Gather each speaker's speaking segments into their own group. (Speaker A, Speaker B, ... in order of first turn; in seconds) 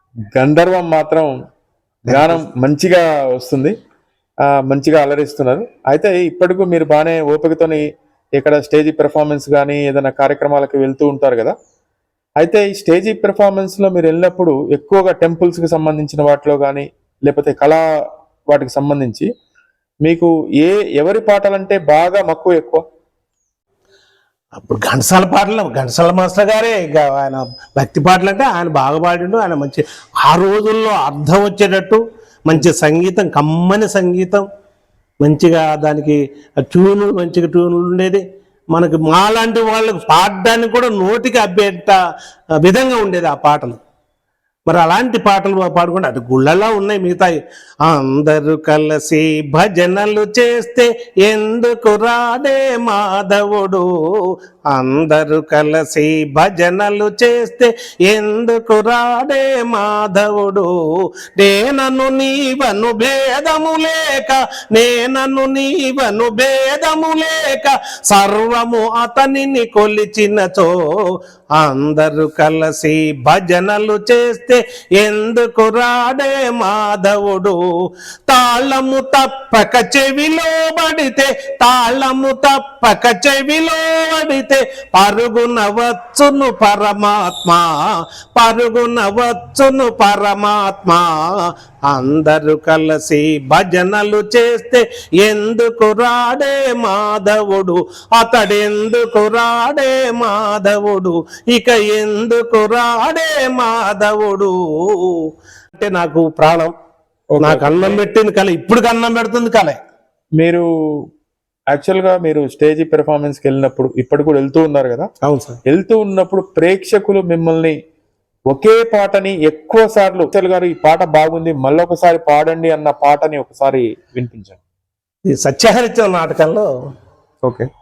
Speaker A: 0.3-1.3, 2.1-3.7, 4.7-7.8, 8.4-11.5, 12.4-17.8, 18.5-19.2, 20.1-22.8, 107.3-108.0, 110.4-110.6, 111.7-115.1, 115.7-117.7, 118.5-124.6, 127.4-127.7
Speaker B: 2.1-2.4, 24.6-34.4, 35.2-38.2, 38.7-42.0, 42.6-43.8, 44.7-53.9, 54.7-60.7, 61.3-70.8, 71.6-77.6, 78.3-87.7, 88.3-91.3, 91.9-105.2, 105.7-106.7, 107.4-109.8, 115.2-115.6, 125.3-126.7